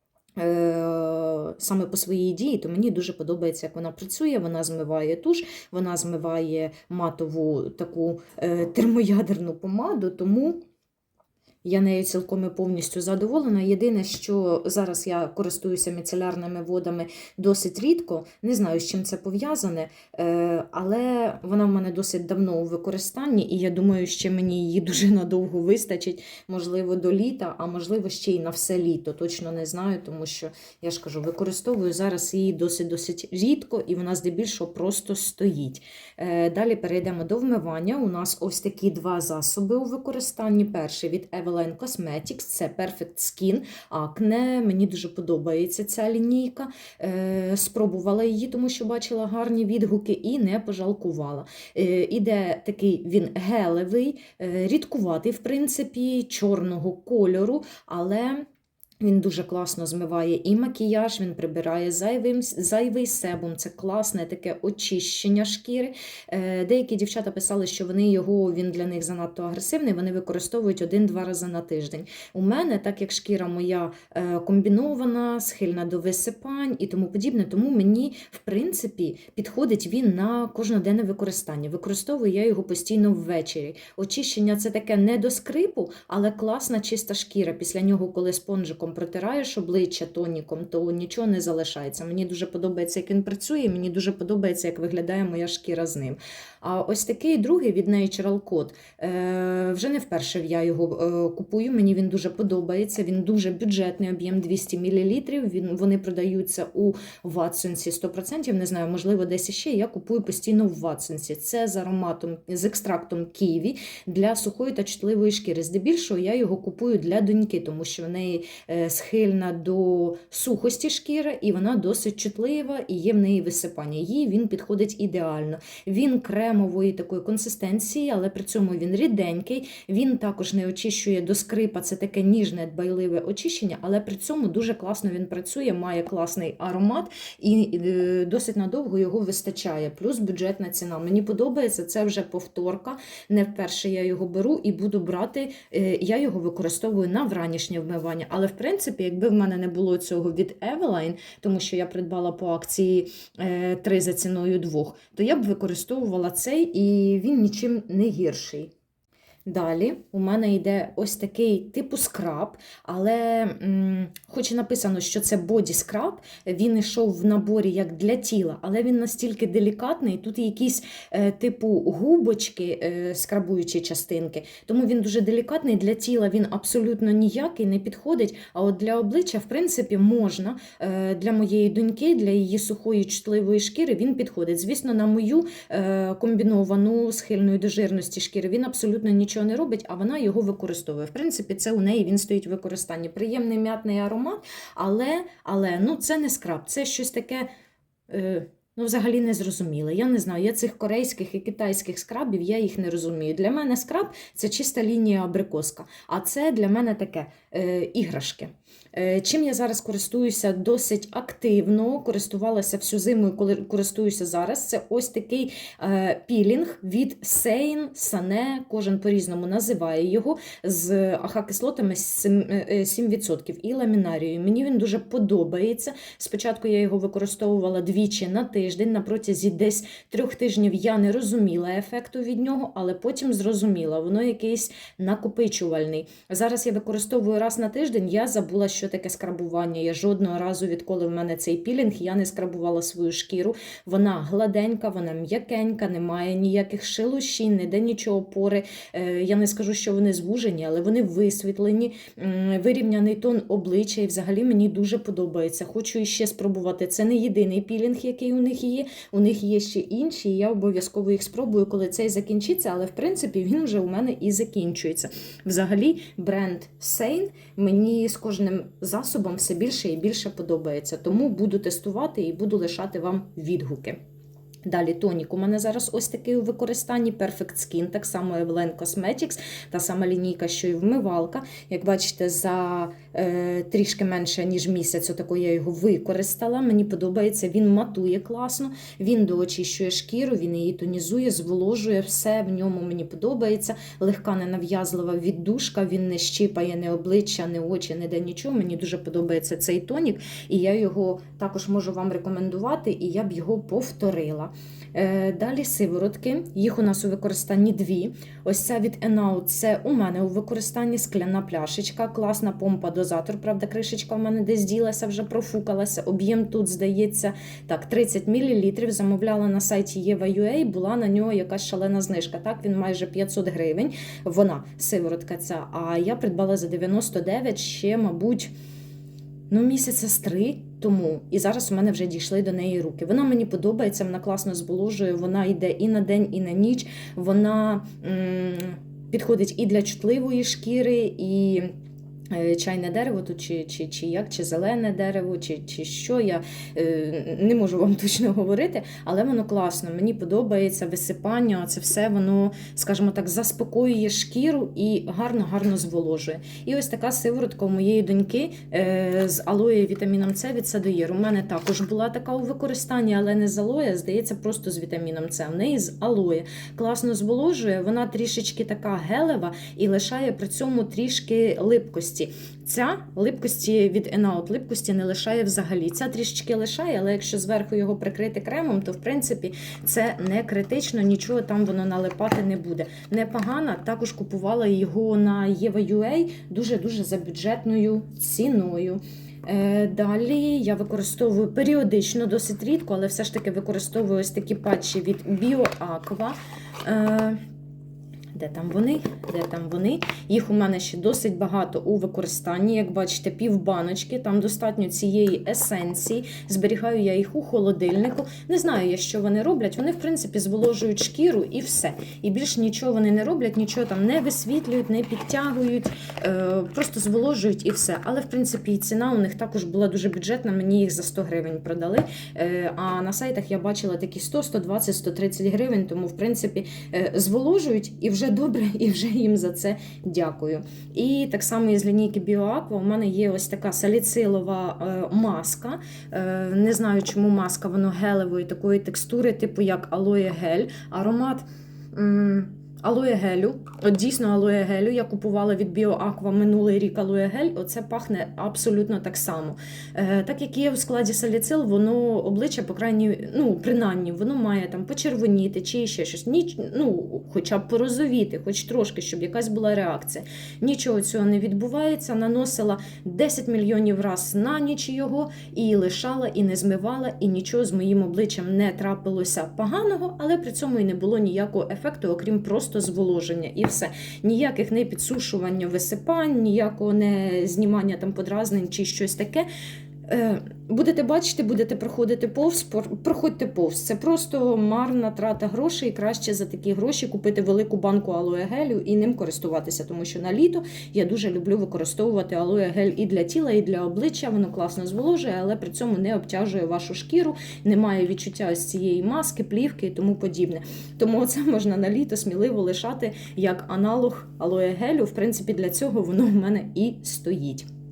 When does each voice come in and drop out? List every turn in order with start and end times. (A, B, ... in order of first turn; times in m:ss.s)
0:00.4-0:10.6 A
0:11.6-0:58.4 A
0:59.0-2:38.7 A
2:39.4-3:17.5 A
3:18.1-4:34.0 A
4:34.6-5:28.5 A
5:29.5-5:41.7 A
5:42.3-6:37.4 A
6:38.3-7:59.4 A
8:00.1-8:27.7 A